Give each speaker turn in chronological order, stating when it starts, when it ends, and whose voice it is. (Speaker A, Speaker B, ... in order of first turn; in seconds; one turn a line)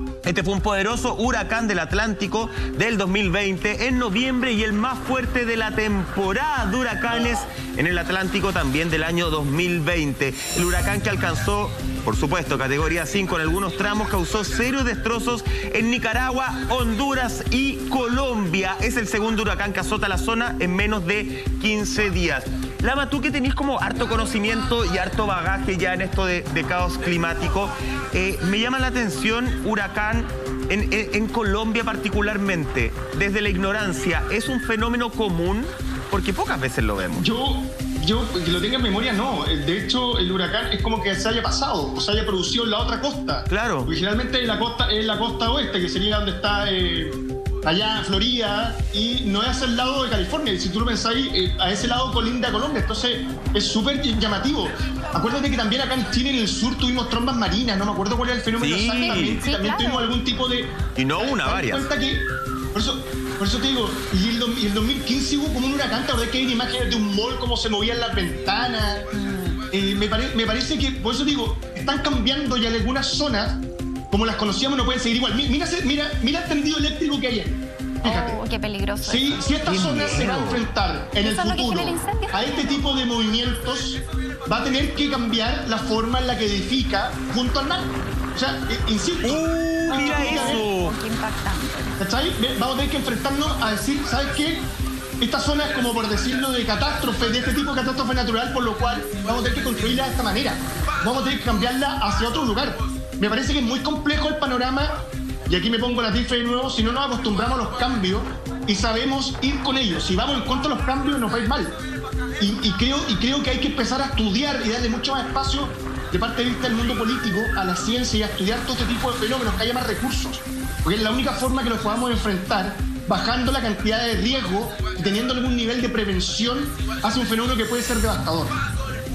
Speaker A: 0.2-37.3
Speaker B: 37.1-69.0
Speaker A: 43.5-43.9
Speaker A: 58.6-59.4
Speaker C: 58.8-60.1
Speaker A: 61.0-61.9
Speaker C: 69.1-69.6
Speaker B: 69.7-78.4
Speaker C: 78.0-79.5
Speaker B: 79.0-90.6
Speaker A: 79.6-80.7
Speaker C: 81.2-82.8
Speaker A: 89.2-90.9
Speaker C: 89.9-92.0
Speaker B: 92.0-94.7
Speaker B: 95.2-111.8
Speaker B: 112.4-128.6